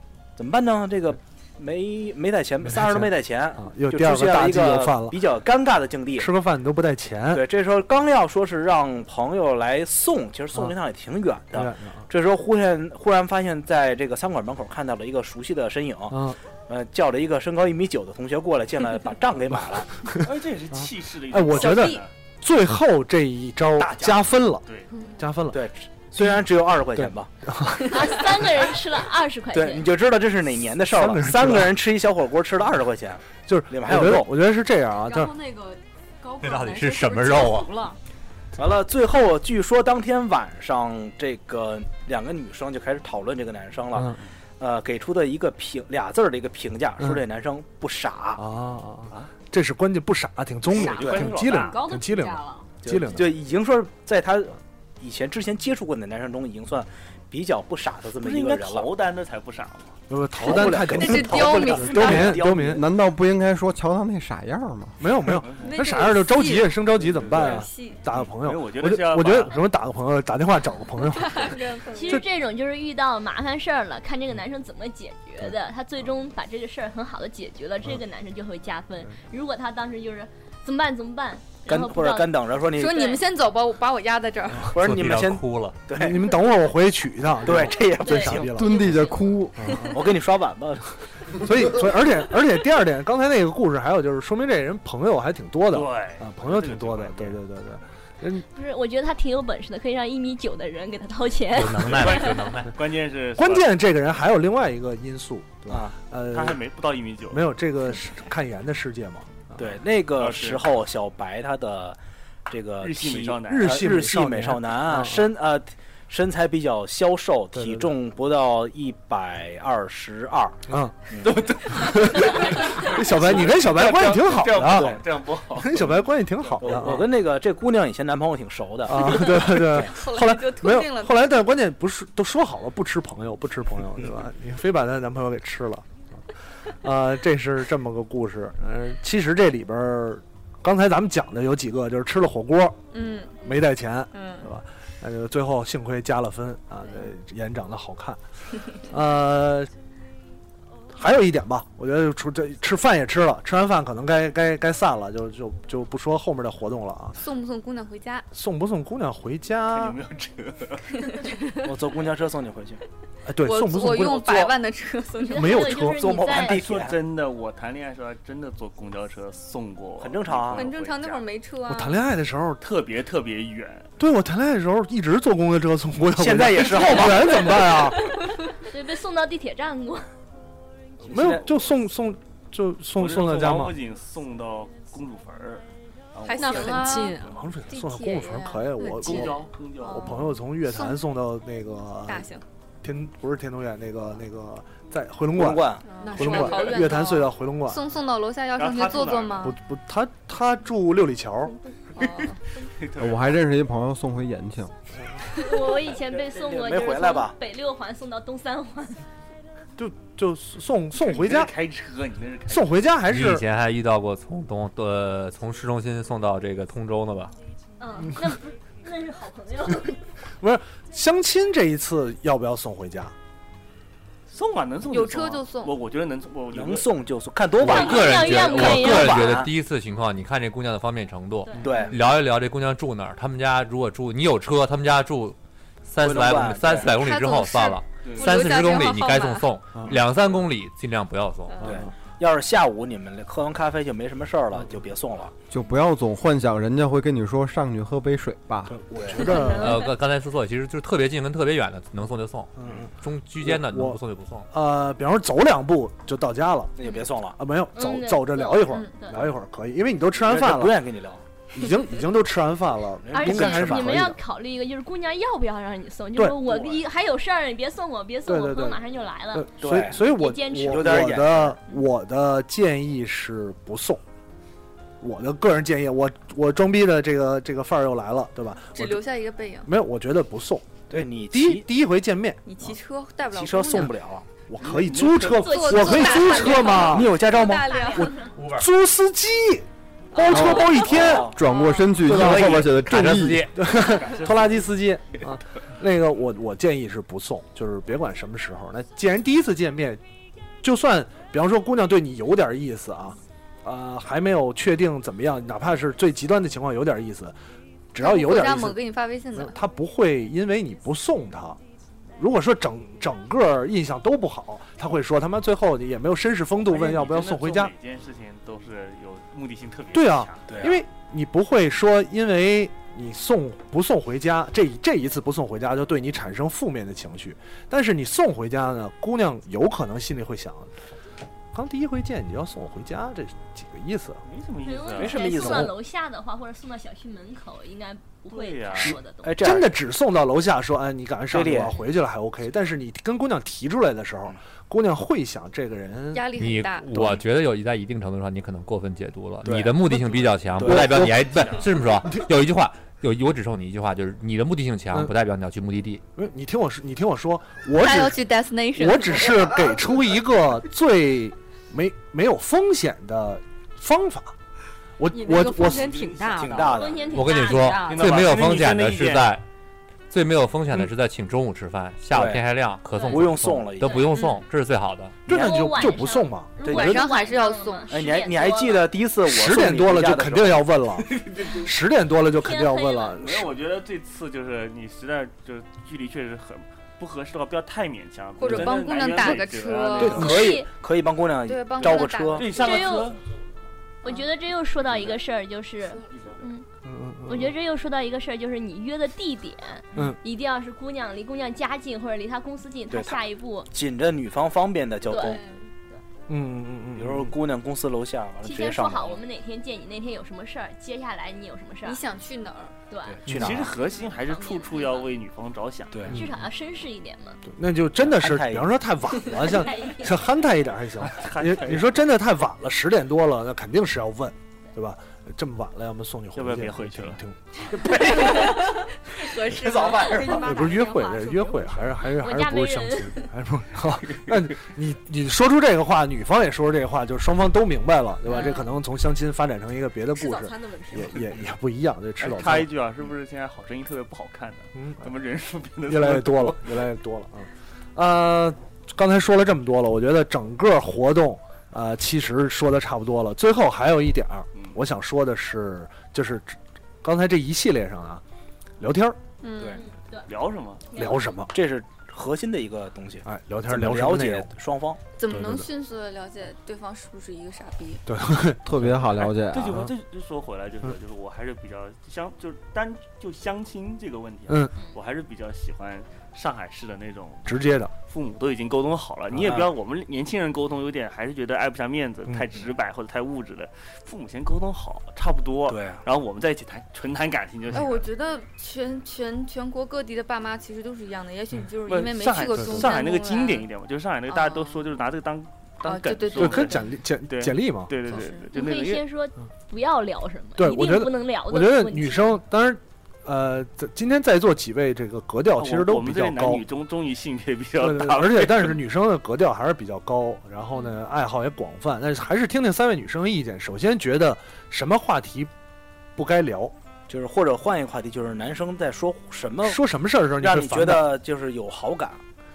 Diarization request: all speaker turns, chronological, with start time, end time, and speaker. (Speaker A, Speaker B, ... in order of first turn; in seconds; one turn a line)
Speaker A: 0.3-6.3
Speaker B: 2.6-5.2
Speaker B: 6.2-7.4
Speaker A: 7.3-19.9
Speaker B: 11.5-12.1
Speaker B: 16.1-16.4
Speaker B: 20.0-20.3
Speaker C: 20.2-22.1
Speaker B: 21.3-24.6
Speaker D: 21.6-22.0
Speaker C: 23.8-24.9
Speaker B: 25.2-25.6
Speaker A: 25.5-27.3
Speaker B: 26.9-27.9
Speaker E: 27.9-29.9
Speaker A: 29.5-34.3
Speaker B: 30.9-31.8
Speaker B: 33.4-35.3
Speaker F: 35.0-38.0
Speaker G: 36.4-37.7
Speaker A: 38.6-48.4
Speaker B: 43.9-44.2
Speaker B: 48.4-53.4
Speaker C: 50.7-51.8
Speaker F: 50.7-52.7
Speaker A: 50.9-51.3
Speaker A: 52.8-58.9
Speaker C: 58.2-59.9
Speaker B: 60.1-62.9
Speaker A: 60.4-62.8
Speaker D: 60.4-62.4
Speaker H: 62.7-65.1
Speaker B: 65.0-72.2
Speaker D: 65.6-68.0
Speaker C: 67.0-69.6
Speaker D: 71.2-72.2
Speaker E: 71.9-83.2
Speaker A: 81.7-83.2
Speaker D: 82.7-84.7
Speaker A: 84.7-86.3
Speaker G: 84.8-85.8
Speaker B: 85.9-88.8
Speaker A: 87.4-88.7
Speaker E: 88.0-89.4
Speaker H: 88.4-89.8
Speaker B: 89.6-90.0
Speaker A: 89.9-90.9
Speaker B: 91.4-98.4
Speaker C: 95.7-97.4
Speaker E: 98.5-102.4
Speaker G: 101.5-102.7
Speaker C: 101.9-103.7
Speaker B: 103.3-106.6
Speaker A: 105.7-105.9
Speaker C: 106.3-107.5
Speaker B: 107.3-109.6
Speaker A: 109.6-121.5
Speaker C: 110.2-110.7
Speaker C: 112.8-113.9
Speaker B: 113.5-115.3
Speaker B: 117.5-117.9
Speaker B: 120.7-120.9
Speaker C: 121.2-126.0
Speaker B: 121.7-125.0
Speaker A: 124.5-125.0
Speaker B: 125.5-127.1
Speaker A: 126.6-129.9
Speaker B: 128.9-136.0
Speaker D: 129.8-131.2
Speaker B: 136.7-142.8
Speaker D: 142.9-143.6
Speaker B: 143.4-149.7
Speaker D: 144.1-144.4
Speaker B: 150.9-157.2
Speaker D: 157.2-158.3
Speaker B: 158.3-160.0
Speaker C: 159.7-160.9
Speaker A: 161.6-162.8
Speaker B: 163.3-164.5
Speaker D: 163.4-165.8
Speaker E: 165.2-166.7
Speaker B: 165.3-166.1
Speaker A: 165.9-167.0
Speaker C: 166.3-171.3
Speaker A: 170.0-170.7
Speaker D: 170.5-172.0
Speaker B: 171.7-172.6
Speaker C: 172.6-173.9
Speaker B: 174.0-178.1
Speaker A: 176.2-177.8
Speaker E: 178.0-180.1
Speaker A: 181.0-181.6
Speaker B: 181.1-183.8
Speaker C: 182.9-185.6
Speaker A: 186.2-186.8
Speaker D: 186.3-189.2
Speaker F: 186.4-187.3
Speaker B: 187.3-192.3
Speaker C: 189.0-190.2
Speaker D: 189.8-191.0
Speaker D: 192.1-192.4
Speaker B: 192.8-197.8
Speaker A: 195.3-195.9
Speaker D: 195.8-199.6
Speaker F: 196.0-196.8
Speaker C: 198.6-199.5
Speaker B: 199.4-201.6
Speaker D: 201.9-202.4
Speaker C: 202.0-202.2
Speaker C: 202.8-203.3
Speaker H: 202.9-204.7
Speaker E: 205.3-209.0
Speaker A: 206.2-207.3
Speaker B: 209.8-211.5
Speaker C: 211.0-212.8
Speaker B: 212.5-213.4
Speaker G: 213.1-217.3
Speaker E: 217.8-219.9
Speaker B: 220.4-223.1
Speaker C: 224.3-226.9
Speaker D: 224.9-225.8
Speaker A: 226.5-229.5
Speaker G: 227.6-241.7
Speaker E: 227.6-229.4
Speaker A: 231.6-232.0
Speaker A: 236.0-236.9
Speaker D: 236.8-239.5
Speaker C: 238.0-238.5
Speaker B: 239.7-240.0
Speaker B: 241.6-241.9
Speaker A: 241.6-245.3
Speaker H: 245.5-248.7
Speaker B: 248.7-249.9
Speaker A: 248.9-249.3
Speaker E: 249.2-249.9
Speaker G: 249.5-254.5
Speaker B: 252.6-254.0
Speaker B: 254.5-256.7
Speaker A: 256.8-257.4
Speaker B: 257.4-260.9
Speaker E: 257.7-259.2
Speaker D: 258.7-259.0
Speaker A: 260.2-261.2
Speaker B: 261.5-264.2
Speaker A: 263.0-264.0
Speaker E: 263.1-271.1
Speaker B: 266.1-266.6
Speaker B: 268.3-274.0
Speaker A: 269.6-270.0
Speaker A: 270.7-271.6
Speaker B: 275.0-279.0
Speaker D: 278.7-279.7
Speaker B: 279.6-282.4
Speaker A: 280.9-281.7
Speaker D: 282.4-283.9
Speaker A: 283.3-284.3
Speaker B: 284.4-287.1
Speaker C: 284.6-285.6
Speaker D: 285.4-288.3
Speaker E: 285.4-288.3
Speaker A: 286.8-288.0
Speaker B: 288.4-291.3
Speaker A: 290.1-291.4
Speaker H: 290.3-290.7
Speaker H: 291.2-293.5
Speaker D: 291.4-292.1
Speaker B: 292.0-300.0
Speaker G: 292.1-293.6
Speaker C: 293.7-294.7
Speaker B: 300.6-307.4
Speaker B: 307.9-308.8
Speaker D: 308.0-309.6
Speaker B: 309.4-311.6
Speaker B: 312.2-317.7
Speaker C: 316.6-320.7
Speaker B: 319.9-330.7
Speaker A: 320.5-320.8
Speaker B: 331.5-334.2
Speaker C: 334.3-335.5
Speaker E: 334.6-339.3
Speaker A: 334.9-335.8
Speaker B: 335.3-335.7
Speaker C: 338.3-339.0
Speaker A: 338.7-339.8
Speaker B: 339.4-346.4
Speaker A: 341.3-341.8
Speaker D: 346.1-347.2
Speaker G: 346.4-356.0
Speaker A: 349.4-349.9
Speaker B: 349.5-350.2
Speaker A: 350.6-351.5
Speaker C: 351.2-351.6
Speaker B: 354.9-355.1
Speaker B: 356.1-364.3
Speaker D: 357.7-359.6
Speaker B: 365.0-366.2
Speaker F: 365.1-368.4
Speaker C: 365.6-366.7
Speaker A: 366.4-367.3
Speaker E: 366.7-367.9
Speaker G: 367.1-369.4
Speaker C: 367.9-369.4
Speaker G: 370.1-375.2
Speaker A: 372.1-372.5
Speaker E: 372.9-374.4
Speaker A: 373.1-374.1
Speaker B: 375.2-376.9
Speaker E: 375.3-378.9
Speaker A: 376.6-377.1
Speaker D: 376.6-377.9
Speaker A: 377.9-380.7
Speaker B: 379.2-383.6
Speaker C: 381.1-381.6
Speaker E: 382.4-383.2
Speaker C: 383.2-390.5
Speaker D: 388.4-390.5
Speaker A: 390.0-392.5
Speaker E: 390.1-390.7
Speaker D: 391.4-392.5
Speaker C: 392.4-393.2
Speaker E: 392.6-393.2
Speaker E: 394.0-396.6
Speaker B: 396.8-397.6
Speaker E: 397.3-403.7
Speaker A: 402.9-405.4
Speaker E: 405.1-405.4
Speaker B: 406.3-407.3
Speaker A: 406.9-409.2
Speaker E: 408.4-412.0
Speaker D: 411.9-412.7
Speaker E: 412.9-413.2
Speaker A: 413.1-413.7
Speaker B: 413.3-413.6
Speaker C: 413.3-416.1
Speaker E: 413.9-415.1
Speaker A: 415.9-416.2
Speaker E: 416.1-417.4
Speaker B: 417.5-428.5
Speaker A: 418.0-418.8
Speaker E: 419.5-420.2
Speaker C: 421.1-422.0
Speaker C: 426.4-427.2
Speaker C: 427.8-428.5
Speaker D: 427.9-430.9
Speaker F: 429.6-432.0
Speaker B: 430.4-442.7
Speaker E: 432.1-433.3
Speaker E: 438.3-438.6
Speaker F: 440.1-441.3
Speaker C: 442.2-446.9
Speaker B: 444.7-445.1
Speaker B: 445.9-458.2
Speaker C: 454.6-454.8
Speaker B: 458.8-459.2
Speaker D: 459.4-459.8
Speaker E: 459.8-460.3
Speaker C: 460.3-460.9
Speaker E: 460.9-461.4
Speaker B: 460.9-461.5
Speaker A: 461.0-465.0
Speaker B: 463.2-464.5
Speaker D: 465.2-468.0
Speaker B: 465.3-465.7
Speaker B: 468.1-469.9
Speaker H: 468.6-469.9
Speaker C: 469.2-477.6
Speaker B: 474.5-474.7
Speaker B: 477.4-477.9
Speaker C: 478.1-488.1
Speaker A: 479.3-479.7
Speaker A: 485.7-486.0
Speaker D: 487.7-493.7
Speaker C: 491.9-499.0
Speaker B: 492.6-492.9
Speaker D: 494.3-494.8
Speaker D: 495.8-496.8
Speaker B: 496.4-497.9
Speaker D: 498.0-498.5
Speaker E: 498.5-502.4
Speaker B: 500.6-506.6
Speaker C: 505.6-508.8
Speaker B: 507.8-515.5
Speaker B: 516.1-516.7
Speaker A: 517.1-519.9
Speaker B: 519.6-521.2
Speaker A: 520.4-522.2